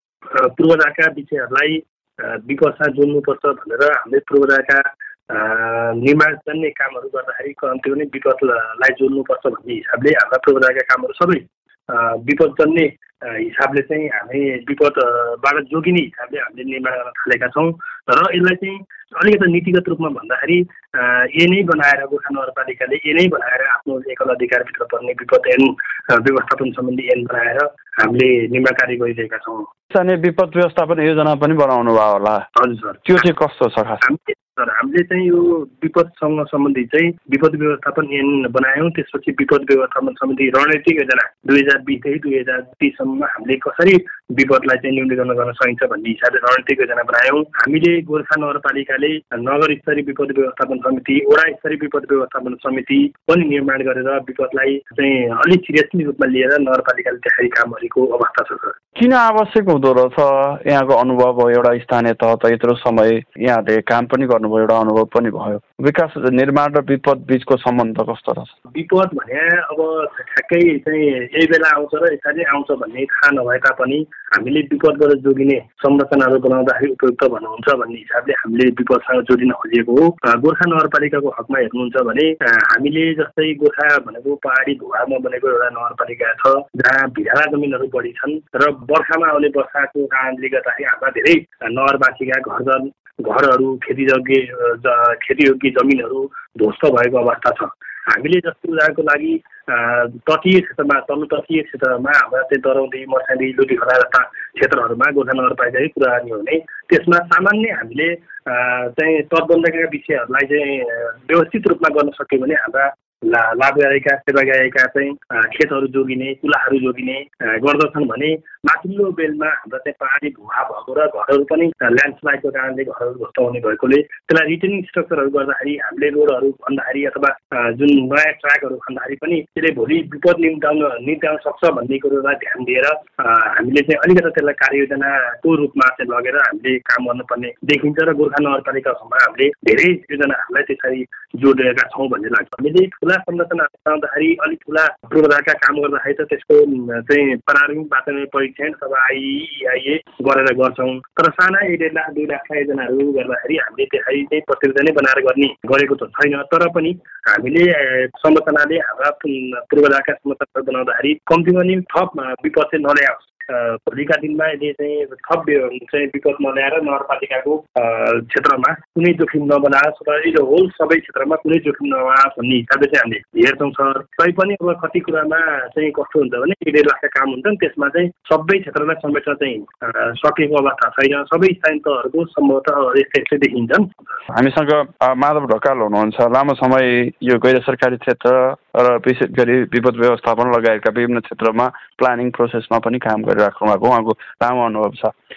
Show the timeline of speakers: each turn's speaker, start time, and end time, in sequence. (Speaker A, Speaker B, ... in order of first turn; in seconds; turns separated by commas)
Speaker A: 0.3-29.7, Speaker B: 29.9-32.5, Speaker A: 32.6-33.1, Speaker B: 33.1-34.0, Speaker A: 34.0-58.8, Speaker B: 59.0-68.5, Speaker A: 68.7-183.9, Speaker B: 184.3-195.1